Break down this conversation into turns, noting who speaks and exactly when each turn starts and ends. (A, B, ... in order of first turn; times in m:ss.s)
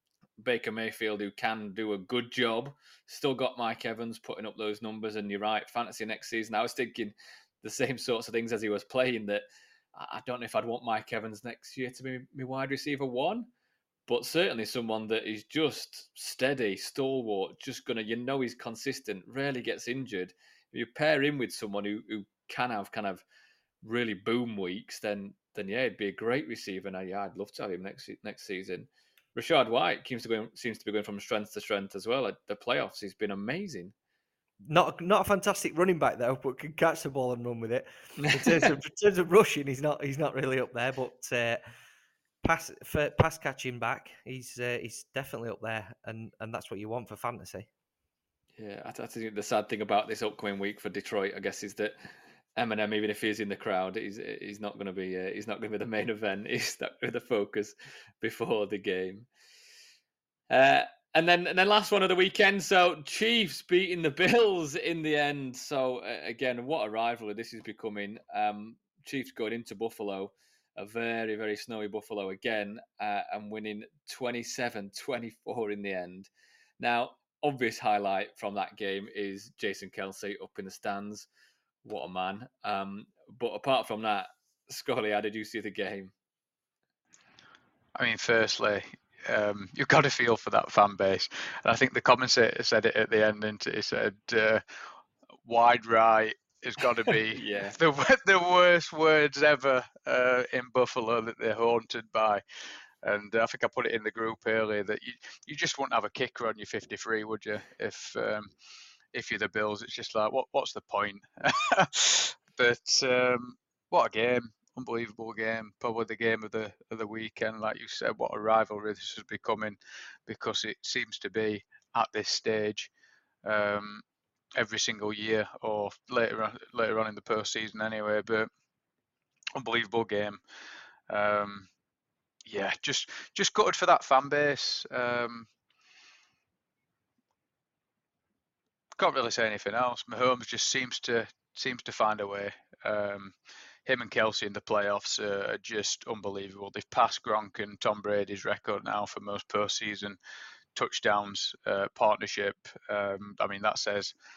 0:00.4-0:13.5 A
0:14.1-0:23.2 A
0:23.8-0:33.9 A
0:34.7-0:41.6 B
0:38.2-0:38.5 A
0:42.4-0:47.7 B
0:48.6-0:52.0 A
0:52.6-0:59.3 A
1:00.5-1:21.3 A
1:21.8-1:26.1 A
1:28.0-1:34.6 C
1:35.4-1:42.4 C
1:37.3-1:37.8 A
1:43.0-1:48.5 C
1:49.1-2:02.9 C
2:03.4-2:04.0 C
2:04.6-2:08.5 C
2:09.6-2:10.4 C
2:11.1-2:11.7 C
2:12.5-2:15.5 C
2:19.0-2:23.3 C
2:23.9-2:30.2 C
2:30.8-2:34.1 C